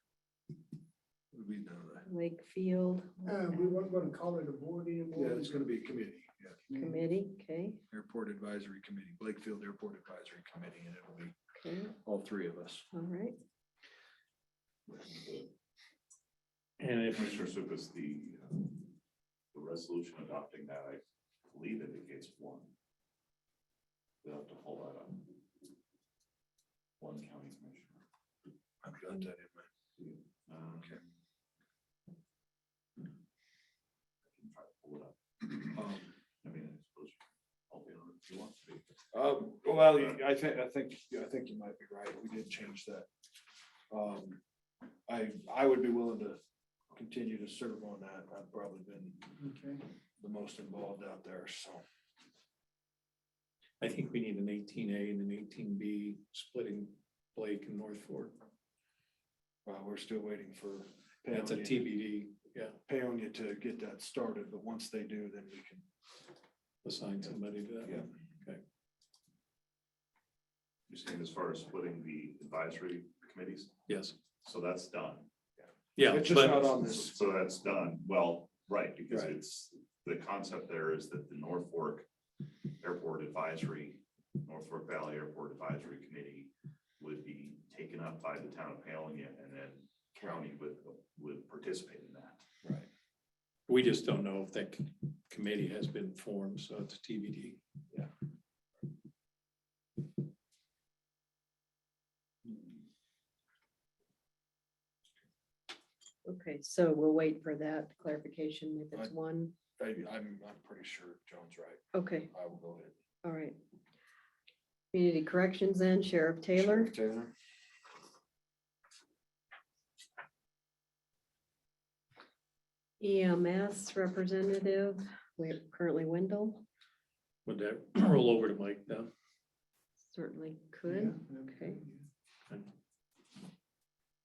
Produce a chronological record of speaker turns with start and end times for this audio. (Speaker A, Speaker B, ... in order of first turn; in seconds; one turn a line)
Speaker A: 1.3-2.1
Speaker B: 2.1-3.8
Speaker C: 3.2-5.7
Speaker A: 5.2-6.6
Speaker C: 6.7-7.0
Speaker B: 6.8-7.8
Speaker A: 7.9-11.3
Speaker B: 11.6-11.9
Speaker A: 12.0-12.9
Speaker B: 12.9-13.4
Speaker D: 14.9-15.5
Speaker E: 16.8-17.4
Speaker D: 17.1-18.9
Speaker D: 19.5-22.7
Speaker D: 24.2-25.4
Speaker D: 27.0-28.0
Speaker A: 28.8-29.7
Speaker D: 30.0-31.1
Speaker A: 30.7-31.0
Speaker D: 34.3-35.9
Speaker A: 35.8-36.1
Speaker D: 36.4-38.8
Speaker A: 39.1-43.1
Speaker D: 39.9-40.2
Speaker A: 43.9-44.4
Speaker A: 45.1-46.4
Speaker A: 46.9-49.2
Speaker C: 49.4-49.8
Speaker A: 50.2-51.8
Speaker E: 53.8-58.4
Speaker A: 59.6-61.9
Speaker E: 61.3-62.8
Speaker A: 62.9-65.8
Speaker E: 66.8-68.6
Speaker D: 70.9-73.7
Speaker E: 73.9-74.2
Speaker D: 74.4-75.3
Speaker E: 76.0-76.7
Speaker A: 76.0-77.4
Speaker D: 76.4-82.1
Speaker A: 79.1-79.3
Speaker D: 82.8-92.4
Speaker A: 92.6-92.9
Speaker E: 93.7-97.6
Speaker B: 106.3-109.6
Speaker A: 109.8-112.9
Speaker B: 112.0-112.3
Speaker B: 113.2-113.6
Speaker B: 114.9-116.9
Speaker A: 116.6-117.3
Speaker B: 123.0-126.7
Speaker E: 127.5-129.1
Speaker B: 130.1-131.8
Speaker C: 130.9-132.1